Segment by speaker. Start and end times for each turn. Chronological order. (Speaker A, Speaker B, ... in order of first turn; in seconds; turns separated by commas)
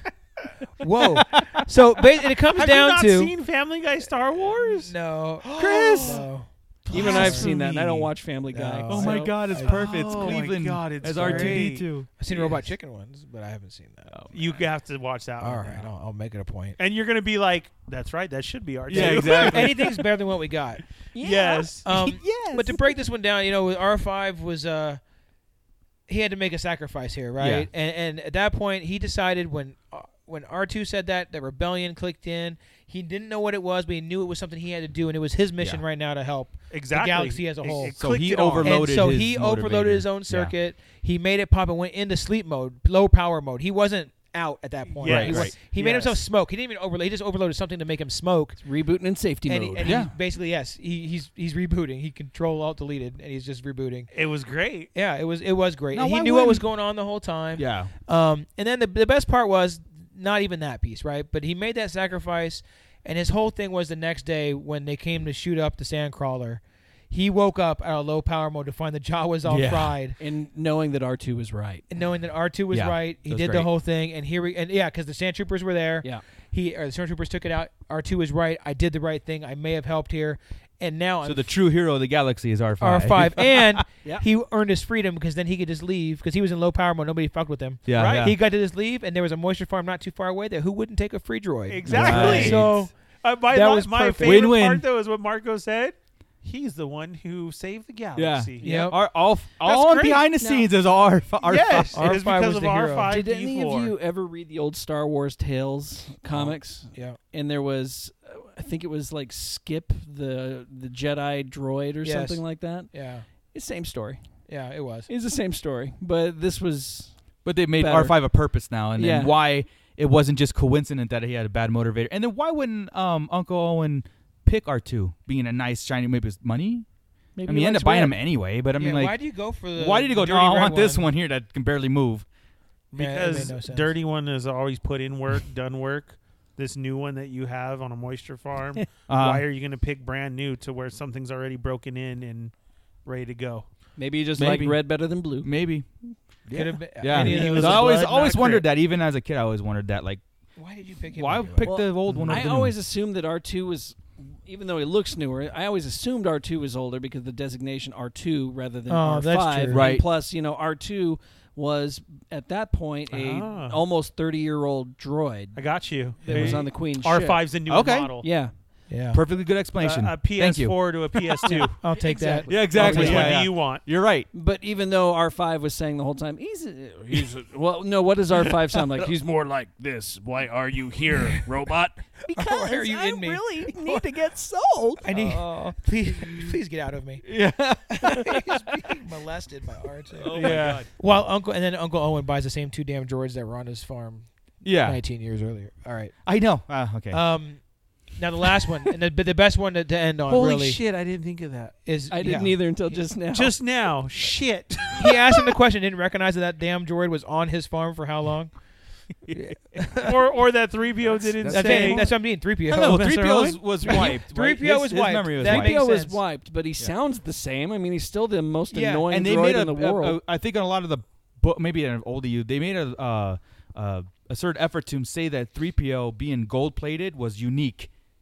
Speaker A: 0.8-3.3, Speaker B: 1.3-1.6, Speaker C: 2.6-4.9, Speaker A: 4.8-7.5, Speaker B: 5.4-6.2, Speaker C: 5.6-6.2, Speaker D: 6.9-9.3, Speaker C: 6.9-8.1, Speaker A: 8.5-10.4, Speaker B: 8.9-12.1, Speaker C: 9.5-12.6, Speaker A: 11.1-14.2, Speaker B: 14.1-14.6, Speaker C: 14.3-15.9, Speaker A: 15.4-16.8, Speaker C: 16.8-19.9, Speaker B: 18.9-19.9, Speaker A: 18.9-20.8, Speaker D: 21.1-21.8, Speaker C: 21.2-21.9, Speaker B: 21.9-22.8, Speaker A: 21.9-25.0, Speaker A: 26.1-38.0, Speaker B: 27.4-27.7, Speaker C: 36.7-38.9, Speaker B: 38.0-40.5, Speaker A: 38.6-48.6, Speaker C: 45.0-46.2, Speaker B: 45.0-45.5, Speaker D: 48.6-50.0, Speaker A: 49.5-54.1, Speaker B: 49.8-50.1, Speaker C: 54.1-54.9, Speaker A: 54.9-70.2, Speaker B: 55.9-56.6, Speaker B: 57.6-57.9, Speaker B: 69.5-70.0, Speaker D: 70.2-71.8, Speaker A: 71.9-81.5, Speaker B: 72.7-73.7, Speaker B: 81.2-83.8, Speaker A: 82.8-93.0, Speaker B: 87.9-88.4, Speaker C: 88.0-88.3, Speaker C: 91.7-98.9, Speaker B: 91.9-92.7, Speaker D: 91.9-92.6, Speaker A: 93.5-94.5, Speaker B: 94.2-94.8, Speaker B: 98.2-102.2, Speaker D: 98.6-98.9, Speaker A: 98.6-99.0, Speaker C: 99.6-100.3, Speaker D: 100.4-100.7, Speaker C: 101.4-103.9, Speaker A: 101.9-103.1, Speaker D: 103.1-112.9, Speaker A: 106.9-107.2, Speaker A: 112.0-113.3, Speaker D: 113.5-114.2, Speaker A: 114.5-115.1, Speaker D: 115.1-117.1, Speaker B: 117.5-126.9, Speaker D: 117.8-118.2, Speaker D: 119.0-119.3, Speaker D: 127.4-128.2, Speaker B: 127.5-129.2, Speaker A: 128.8-131.1, Speaker B: 129.8-132.3, Speaker C: 132.9-142.5, Speaker A: 133.0-133.9, Speaker B: 139.1-139.4, Speaker C: 143.1-143.7, Speaker D: 144.0-145.5, Speaker B: 144.4-144.8, Speaker B: 145.4-145.9, Speaker B: 146.5-150.2, Speaker A: 146.5-147.9, Speaker D: 147.1-148.1, Speaker C: 147.1-148.7, Speaker A: 150.6-151.7, Speaker B: 151.1-152.8, Speaker D: 151.6-167.5, Speaker A: 158.9-159.9, Speaker B: 159.7-160.1, Speaker C: 163.1-163.8, Speaker C: 165.6-168.3, Speaker B: 166.3-166.7, Speaker B: 167.7-168.2, Speaker D: 168.2-168.5, Speaker A: 168.9-169.2, Speaker B: 169.1-171.7, Speaker C: 169.8-171.8, Speaker D: 171.5-173.4, Speaker A: 171.8-173.3, Speaker B: 172.5-174.3, Speaker C: 172.7-173.8, Speaker D: 174.3-185.1, Speaker A: 182.3-184.1, Speaker A: 185.0-187.2, Speaker B: 185.1-186.6, Speaker B: 187.2-188.9, Speaker A: 187.9-196.1, Speaker B: 190.2-190.9, Speaker C: 190.4-190.9, Speaker B: 194.6-195.0, Speaker B: 196.2-197.2, Speaker A: 197.1-200.8, Speaker C: 200.3-201.8, Speaker A: 201.8-203.0, Speaker D: 202.1-203.6, Speaker C: 203.3-205.5, Speaker A: 205.0-208.6, Speaker B: 209.3-209.8, Speaker A: 209.3-210.2, Speaker C: 210.0-212.2, Speaker B: 211.4-212.1, Speaker A: 211.4-213.1, Speaker C: 212.7-214.0, Speaker B: 212.7-215.8, Speaker A: 213.9-216.2, Speaker D: 215.4-220.2, Speaker A: 218.7-219.0, Speaker B: 219.1-227.9